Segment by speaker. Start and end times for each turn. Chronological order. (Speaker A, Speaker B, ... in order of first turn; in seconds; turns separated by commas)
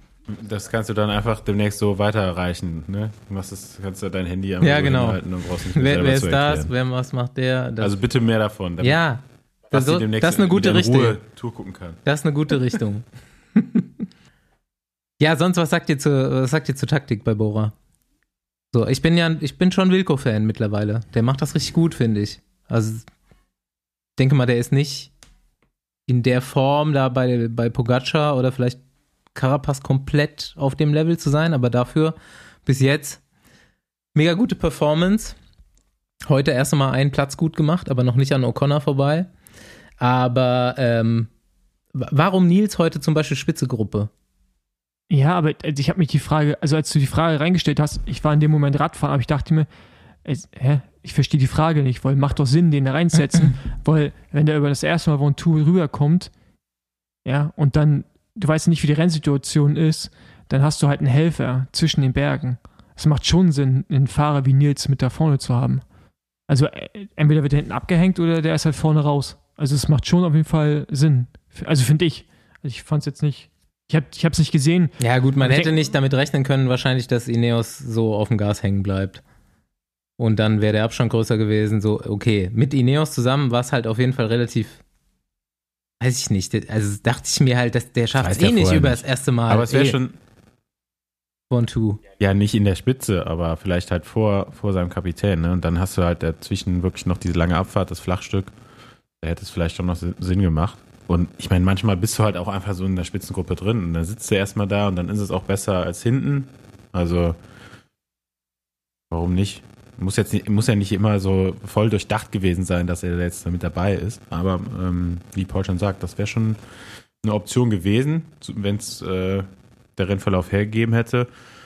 Speaker A: 0.3-6.7, Speaker B: 4.6-8.0, Speaker A: 7.8-9.1, Speaker B: 8.8-11.2, Speaker A: 9.7-12.0, Speaker B: 12.1-13.9, Speaker B: 15.2-17.7, Speaker B: 18.7-23.1, Speaker B: 24.2-25.1, Speaker B: 26.1-28.8, Speaker B: 29.3-33.2, Speaker B: 34.1-35.4, Speaker B: 36.3-39.3, Speaker B: 40.0-41.3, Speaker B: 42.0-44.1, Speaker C: 45.1-49.7, Speaker C: 50.2-56.3, Speaker C: 57.2-65.9, Speaker C: 66.5-75.8, Speaker B: 75.0-79.2, Speaker B: 80.2-84.8, Speaker B: 86.0-90.0, Speaker A: 88.2-90.2, Speaker B: 91.5-92.0, Speaker A: 92.2-98.5, Speaker A: 99.2-107.4, Speaker A: 109.1-116.6, Speaker A: 117.2-121.3